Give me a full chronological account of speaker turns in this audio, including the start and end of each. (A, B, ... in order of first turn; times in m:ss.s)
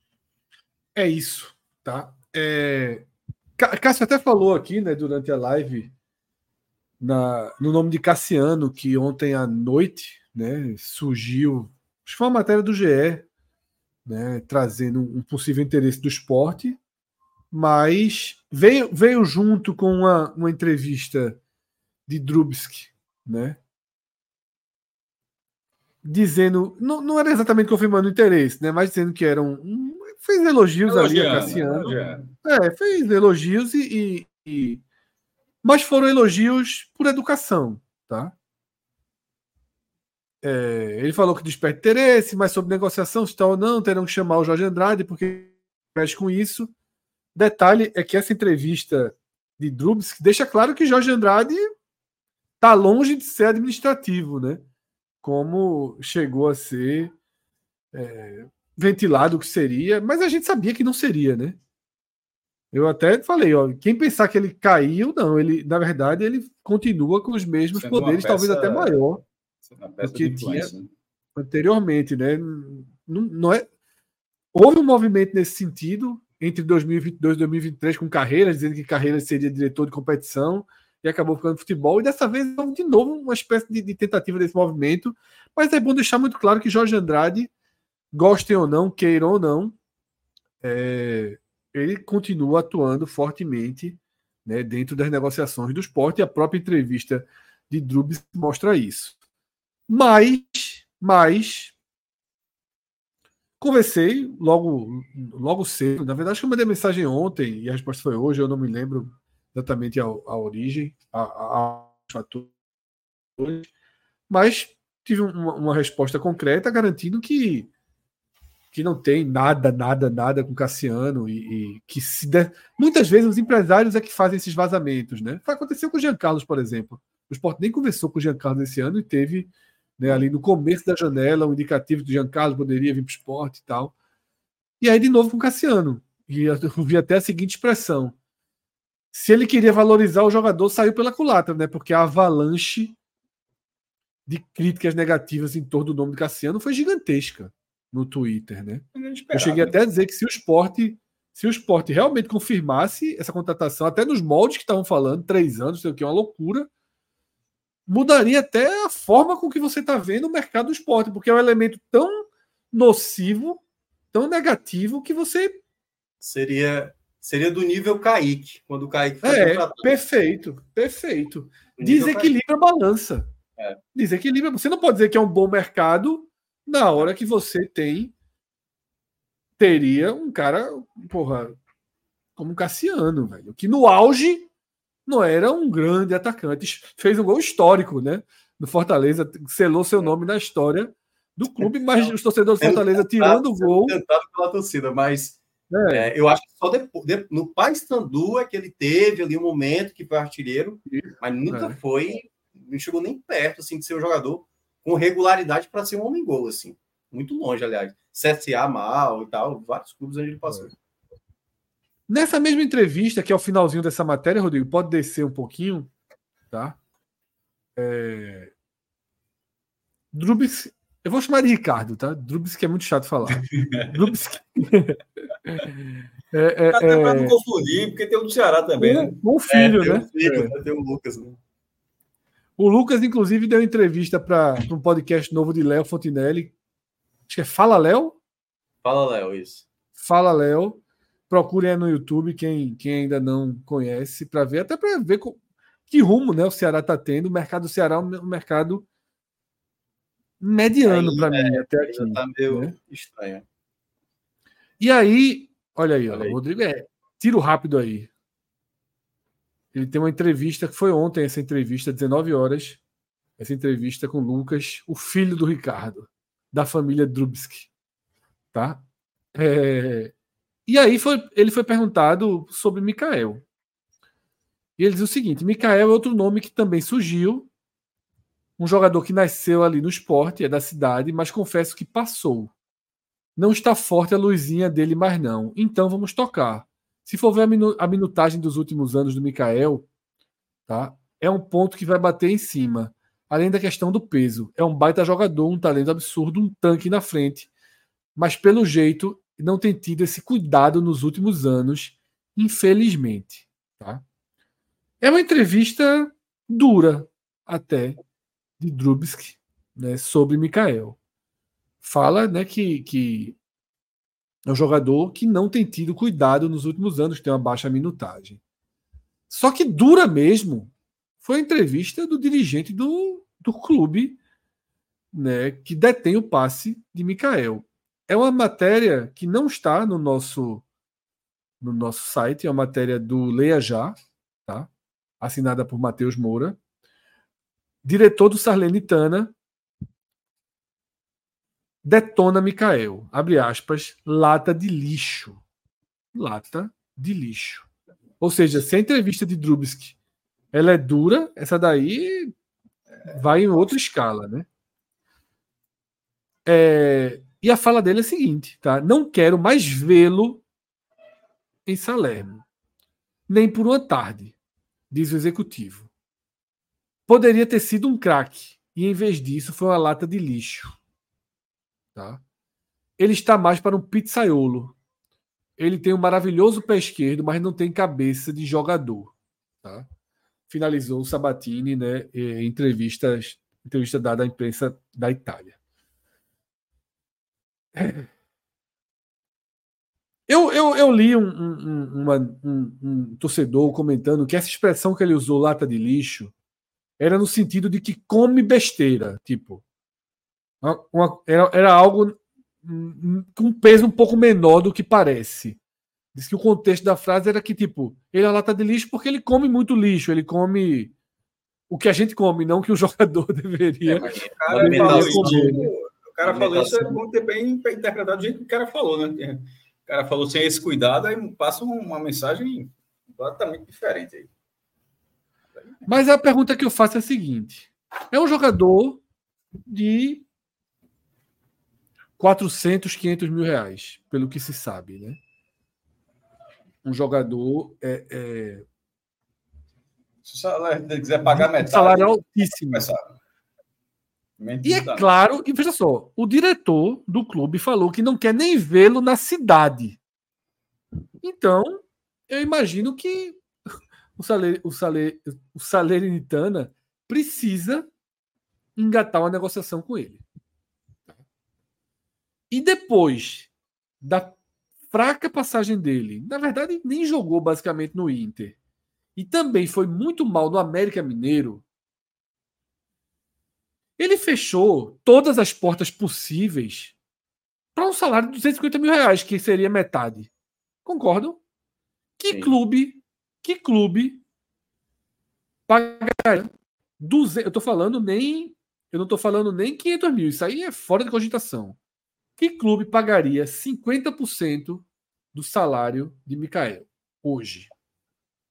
0:00.9-0:03.1 A
0:03.6-0:05.9 A
0:07.0-0:13.3 A
0:14.1-0:16.8 A
0:17.5-0:21.4 A
0:22.1-0:23.6 A
0:26.0-0:34.8 A
0:30.9-0:32.3 B
0:35.6-0:38.3 A
0:40.4-0:46.7 A
0:47.4-0:51.6 A
0:52.6-0:54.6 A
0:55.2-0:57.1 A
0:57.9-1:01.6 A
1:02.7-1:09.2 A
1:07.7-1:09.0 B
1:09.7-1:10.9 B
1:10.0-1:10.7 A
1:11.4-1:13.7 A
1:14.5-1:27.5 A
1:28.1-1:29.7 A
1:30.6-1:39.1 A
1:39.9-1:41.7 A
1:43.6-1:52.5 A
1:53.4-1:53.7 A
1:54.3-1:57.7 A
1:58.7-2:13.9 A
2:14.8-2:18.2 A
2:19.1-2:23.0 A
2:24.3-2:36.7 A
2:28.9-2:29.8 B
2:37.9-2:43.6 A
2:44.1-2:45.6 A
2:46.2-2:50.0 C
2:49.2-2:53.3 A
2:51.8-2:52.4 C
2:53.9-2:58.1 A
2:59.6-3:01.6 A
3:02.4-3:04.5 A
3:05.1-3:13.9 A
3:12.6-3:30.7 C
3:15.7-3:16.1 A
3:20.9-3:21.8 A
3:32.1-3:35.9 A
3:36.5-3:36.8 A
3:37.8-3:38.5 A
3:40.1-3:47.4 A
3:43.3-3:44.1 B
3:46.7-3:49.1 B
3:48.8-3:50.5 A
3:49.5-3:51.4 C
3:52.6-3:56.5 A
3:57.3-3:58.2 A
3:58.8-3:59.6 C
4:00.0-4:08.8 A
4:10.4-4:12.7 A
4:10.8-4:13.4 C
4:14.8-4:18.1 A
4:16.1-4:16.4 C
4:19.7-4:22.8 A
4:23.4-4:27.7 A
4:28.5-4:28.8 A
4:29.3-4:30.1 A
4:30.7-4:33.4 A
4:34.8-4:37.5 A
4:38.6-4:42.5 A
4:43.4-4:49.9 A
4:50.7-4:57.5 A
4:58.2-5:04.0 A
5:05.0-5:08.0 A
5:08.6-5:11.0 A
5:11.8-5:13.4 A
5:14.4-5:18.4 A
5:19.3-5:24.2 A
5:25.1-5:30.6 A
5:31.6-5:36.6 A
5:37.8-5:39.4 A
5:41.8-5:45.4 A
5:46.1-5:47.7 A
5:48.2-5:49.9 A
5:50.5-5:52.3 A
5:53.1-5:54.5 A
5:56.4-6:00.4 A
6:01.6-6:02.4 A
6:03.3-6:04.3 A
6:04.9-6:05.9 A
6:07.1-6:10.8 A
6:11.9-6:12.2 A
6:13.0-6:14.8 A
6:15.6-6:19.9 A
6:20.5-6:25.6 A
6:27.7-6:28.1 A
6:30.3-6:36.3 A
6:37.0-6:39.6 A
6:40.6-6:45.6 A
6:46.1-6:50.9 A
6:51.7-6:54.0 A
6:53.8-7:04.3 B
6:54.0-6:55.7 C
6:54.6-6:55.6 A
6:56.2-6:57.0 C
7:05.6-7:06.0 B
7:05.9-7:09.0 A
7:09.6-7:10.2 A
7:12.2-7:15.2 A
7:16.8-7:18.6 A
7:20.2-7:23.1 B
7:21.3-7:22.9 A
7:24.4-7:25.1 B
7:24.6-7:30.0 A
7:31.2-7:33.4 A
7:34.2-7:37.9 A
7:38.8-7:40.2 A
7:42.5-7:43.5 A
7:44.0-7:44.4 A
7:44.9-7:48.6 A
7:49.2-7:51.6 A
7:54.0-7:57.0 A
7:57.7-8:00.3 A
8:00.8-8:01.4 A
8:02.2-8:04.2 A
8:05.7-8:11.8 A
8:12.4-8:17.7 A